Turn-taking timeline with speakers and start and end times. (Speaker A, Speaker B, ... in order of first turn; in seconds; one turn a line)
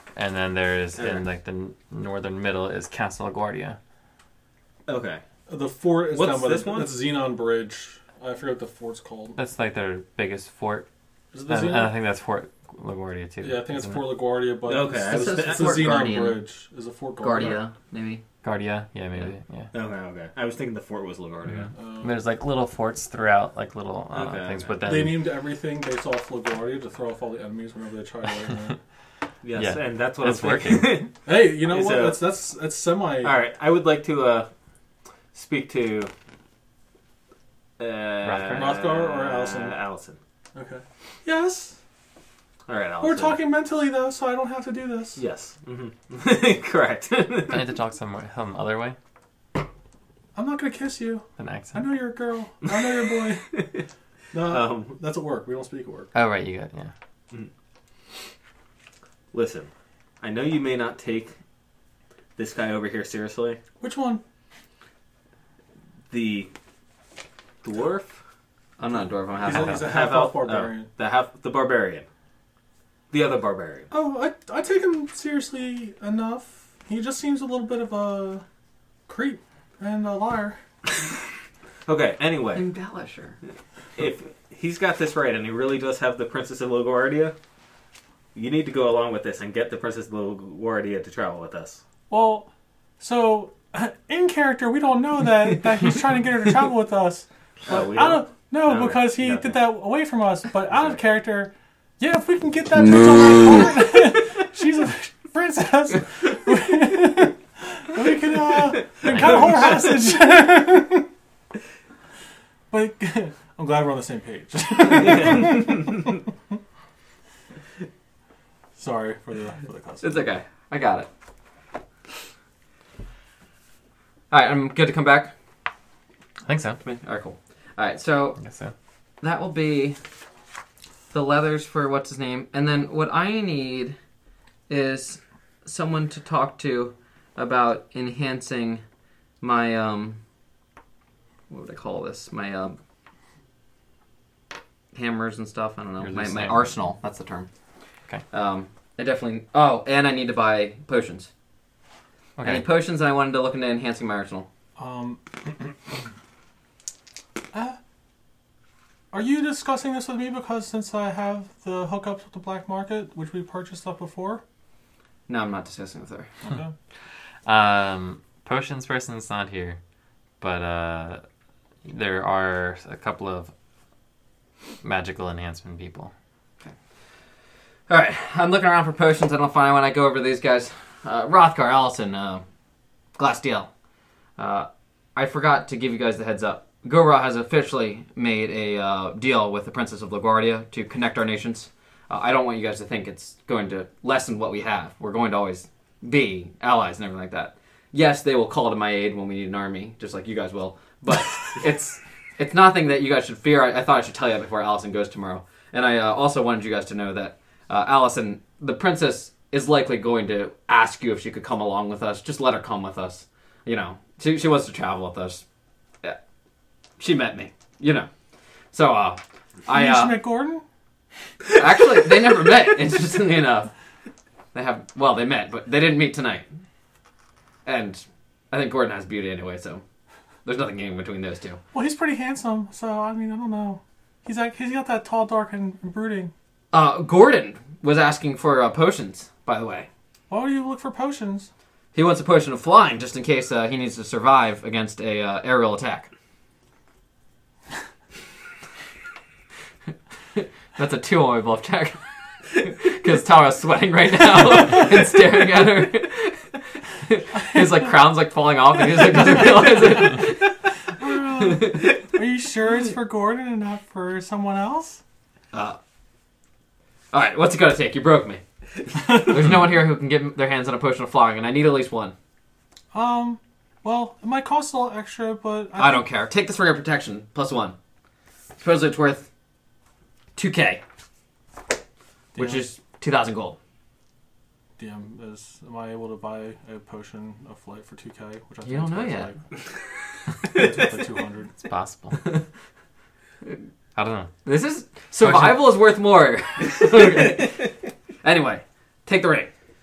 Speaker A: 0.1-3.8
Speaker B: 1.0-1.2
Speaker B: 4.8-5.2
Speaker C: 5.5-9.4
Speaker B: 6.1-6.9
Speaker A: 9.3-10.8
Speaker C: 11.3-11.9
Speaker A: 11.5-14.1
Speaker C: 13.4-17.6
Speaker B: 14.7-15.9
Speaker D: 15.1-16.4
Speaker D: 17.2-18.2
Speaker A: 18.4-19.7
Speaker B: 19.7-21.7
Speaker A: 21.5-25.2
Speaker C: 21.7-22.1
Speaker B: 24.1-24.8
Speaker C: 24.8-28.8
Speaker B: 29.4-32.2
Speaker A: 29.5-31.1
Speaker C: 31.2-33.3
Speaker B: 33.2-34.5
Speaker B: 35.3-36.1
Speaker B: 37.8-40.2
Speaker A: 38.2-38.7
Speaker C: 38.5-39.8
Speaker C: 40.5-41.8
Speaker B: 42.7-43.4
Speaker C: 43.0-45.2
Speaker B: 45.1-47.7
Speaker A: 47.5-49.0
Speaker C: 50.3-53.7
Speaker A: 51.4-51.9
Speaker B: 52.7-53.8
Speaker C: 54.3-56.1
Speaker B: 54.5-55.0
Speaker A: 56.1-56.9
Speaker B: 59.3-59.7
Speaker B: 60.2-61.3
Speaker B: 62.4-63.6
Speaker C: 63.8-64.2
Speaker B: 66.1-66.5
Speaker B: 67.6-68.2
Speaker D: 68.8-69.8
Speaker C: 69.4-70.9
Speaker B: 69.5-72.0
Speaker B: 73.1-73.9
Speaker C: 73.9-78.4
Speaker C: 79.1-80.6
Speaker B: 81.8-82.7
Speaker D: 82.5-83.4
Speaker B: 84.0-87.3
Speaker B: 88.3-91.8
Speaker C: 92.1-92.5
Speaker C: 93.0-111.1
Speaker B: 97.7-99.6
Speaker B: 109.0-109.3
Speaker A: 109.0-109.7
Speaker C: 112.7-116.3
Speaker B: 114.9-116.0
Speaker C: 118.8-120.3
Speaker D: 120.0-121.1
Speaker D: 124.3-125.3
Speaker A: 126.4-126.8
Speaker D: 126.8-128.4
Speaker A: 128.4-128.7
Speaker D: 129.2-130.0
Speaker D: 131.1-134.0
Speaker D: 134.7-138.8
Speaker D: 139.4-140.2
Speaker D: 141.5-142.8
Speaker D: 144.9-147.5
Speaker A: 146.0-146.7
Speaker D: 148.3-151.3
Speaker A: 152.4-152.6
Speaker D: 152.4-154.5
Speaker C: 154.8-155.9
Speaker C: 157.5-157.8
Speaker C: 159.1-164.4
Speaker D: 165.3-166.3
Speaker C: 166.4-166.7
Speaker A: 167.4-169.8
Speaker A: 170.4-171.2
Speaker A: 171.8-173.5
Speaker A: 174.8-176.1
Speaker D: 177.9-182.4
Speaker D: 183.2-183.7
Speaker D: 184.4-215.4
Speaker D: 217.0-218.1
Speaker D: 218.7-220.2
Speaker C: 219.7-220.6
Speaker D: 221.5-223.7
Speaker D: 224.5-226.4
Speaker D: 227.6-229.8
Speaker D: 230.4-231.6
Speaker C: 231.7-236.3
Speaker D: 236.7-239.9
Speaker C: 240.3-241.5
Speaker D: 241.9-246.1
Speaker D: 250.3-260.6
Speaker C: 261.0-265.0
Speaker D: 261.3-262.1
Speaker D: 265.5-265.8
Speaker D: 267.1-272.1
Speaker C: 272.9-276.0
Speaker D: 275.8-277.7
Speaker D: 278.6-279.3
Speaker D: 280.4-280.8
Speaker C: 282.3-282.6
Speaker D: 282.4-283.6
Speaker C: 284.8-289.4
Speaker D: 288.6-289.3
Speaker C: 290.4-291.5
Speaker A: 291.6-292.2
Speaker A: 293.9-294.3
Speaker D: 294.4-299.5
Speaker A: 295.2-295.7